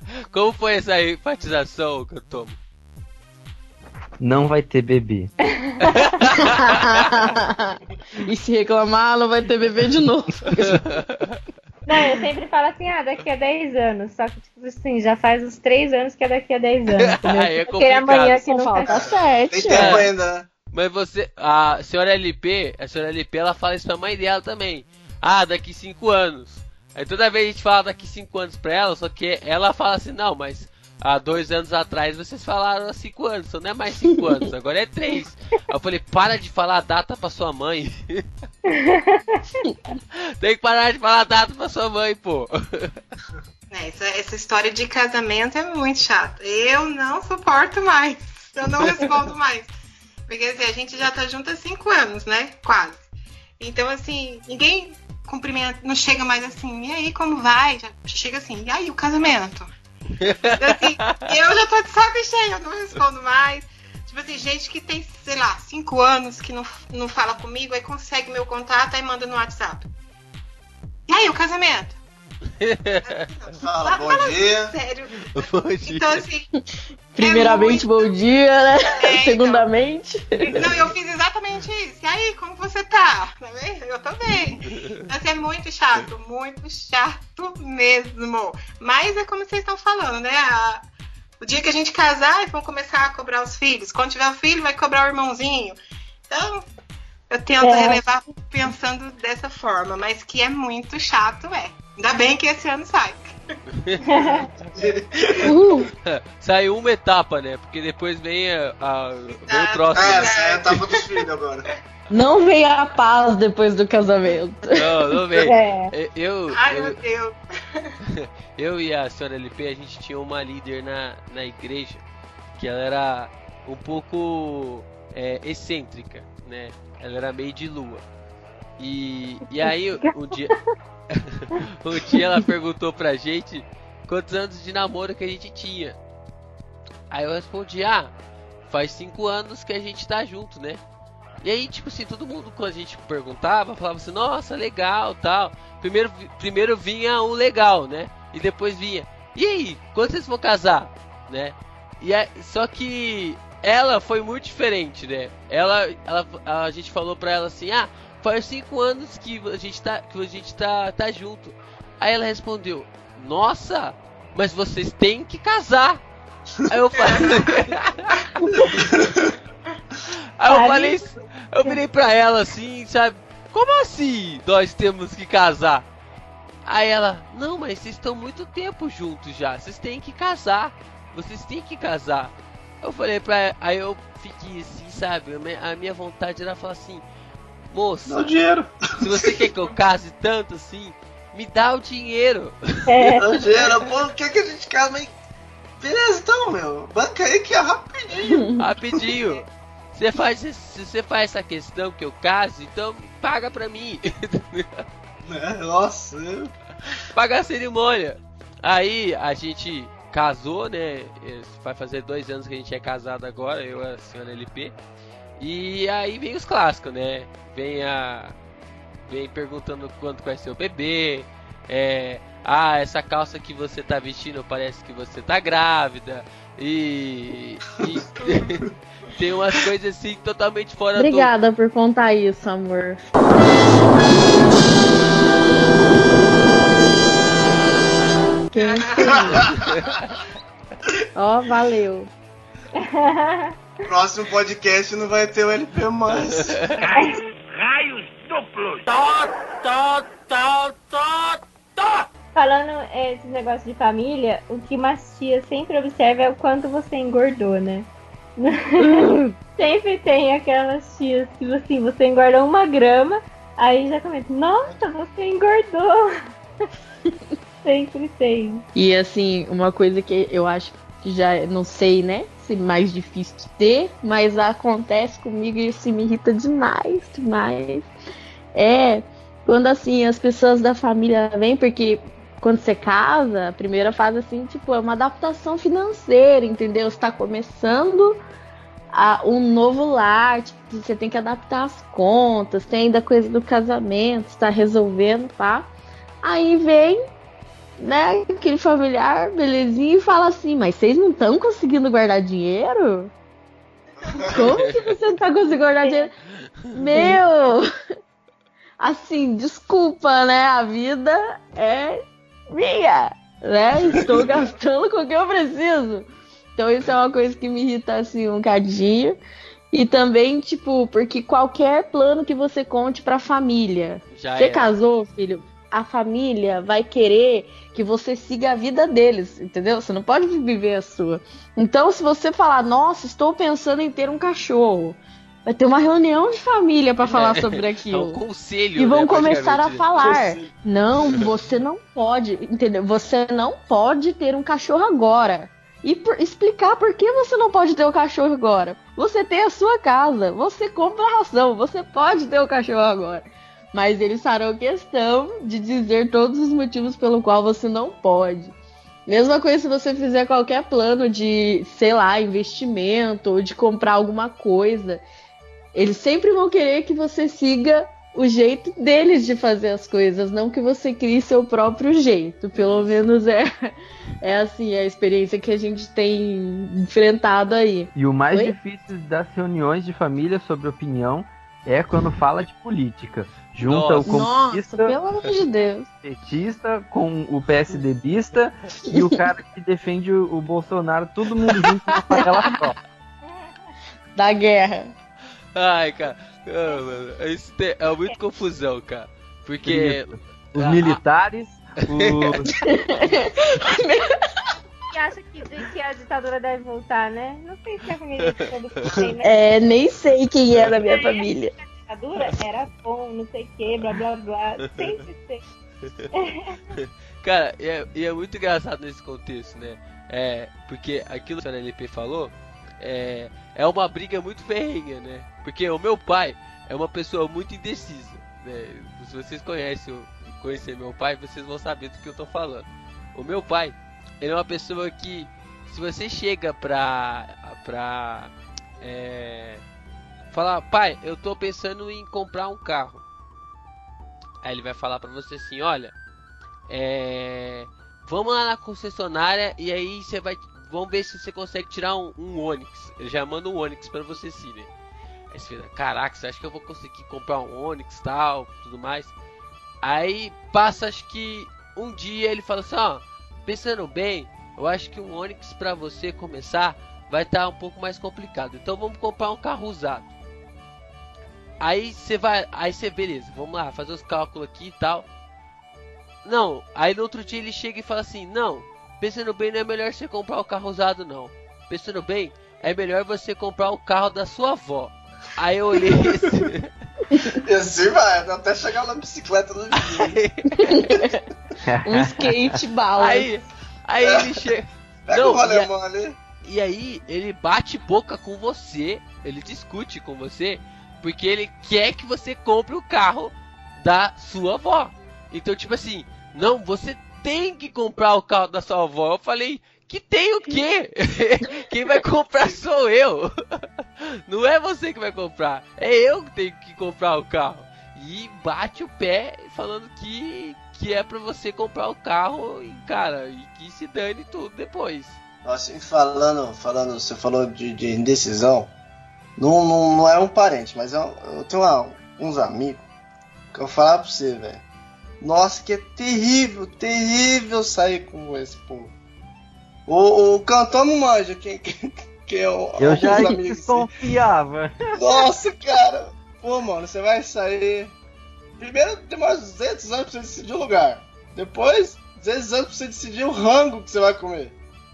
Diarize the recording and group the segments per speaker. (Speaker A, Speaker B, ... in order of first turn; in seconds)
Speaker A: 0.3-2.6, 5.8-6.3, 10.8-11.3, 17.0-18.7, 19.7-20.1, 20.7-38.2, 40.4-42.9, 60.2-61.2, 72.6-73.2, 75.3-76.2, 84.7-85.0, 103.8-104.1, 105.6-110.3, 114.7-117.0, 118.0-122.0, 122.6-128.0, 128.8-130.5, 131.1-135.9, 137.1-138.1, 138.7-140.8, 141.4-166.0, 166.7-168.3, 170.4-175.8, 176.7-187.0, 187.7-188.2, 189.0-192.6, 198.6-204.8, 207.1-214.7, 215.4-218.3, 219.1-228.6, 229.1-231.3, 239.7-240.0, 246.1-246.8, 304.3-304.9, 324.1-324.7, 337.1-339.9, 383.6-384.2, 395.5-401.0, 401.9-402.3, 416.7-439.6, 440.3-443.0, 444.4-445.9, 446.7-454.7, 455.3-459.1, 459.8-470.1, 471.6-475.1, 476.2-486.7, 489.8-490.5, 493.0-495.7, 496.4-513.6, 514.3-525.2
Speaker B: 4.2-5.3, 377.9-385.0, 385.9-392.8, 399.6-402.5, 491.6-492.6, 542.8-544.7
Speaker C: 5.6-6.0, 11.8-19.1, 38.7-39.4, 97.6-98.0, 104.1-104.5, 115.4-115.9, 170.5-171.1, 192.9-193.2, 242.8-243.5, 252.3-266.1, 267.6-268.6, 393.2-393.7, 404.9-409.8, 410.8-415.4, 416.1-416.6
Speaker D: 6.3-11.0, 18.4-20.1, 77.1-80.6, 105.4-105.9, 112.1-114.9, 198.3-198.6, 230.9-233.1, 238.5-239.5, 241.1-242.1, 258.8-259.3, 268.8-277.9, 278.5-288.2, 288.9-295.7, 296.2-297.0, 297.8-303.1, 304.3-306.1, 306.7-307.7, 308.8-319.2, 319.7-338.2, 338.8-358.6, 359.1-365.0, 365.7-373.5, 374.2-378.6, 384.1-385.9, 388.9-389.2, 391.6-392.6, 394.1-394.9, 402.6-404.5, 409.2-411.5, 487.1-487.4, 490.6-491.2, 491.8-493.3
Speaker E: 19.0-20.5, 73.6-74.7, 104.2-105.5, 109.9-111.7, 168.7-169.3, 188.1-188.7, 193.2-195.1, 195.8-198.5, 205.2-206.5, 239.3-239.7, 243.8-246.6, 339.9-340.5, 372.5-373.0, 487.3-490.2, 494.0-494.3, 495.1-496.1, 525.4-528.7, 529.4-532.9, 533.5-534.6, 535.2-538.9, 539.9-544.1, 544.9-547.9, 548.6-554.5
Speaker F: 43.7-49.7, 50.3-53.0, 53.6-59.7, 60.6-69.9, 71.1-72.0, 73.0-76.5, 77.2-78.1, 78.9-79.7, 80.5-90.9, 91.4-95.8, 96.3-96.7, 97.3-103.4, 109.3-111.2, 116.5-117.9, 166.9-167.5, 228.2-228.4, 238.6-239.2
Speaker G: 246.8-252.1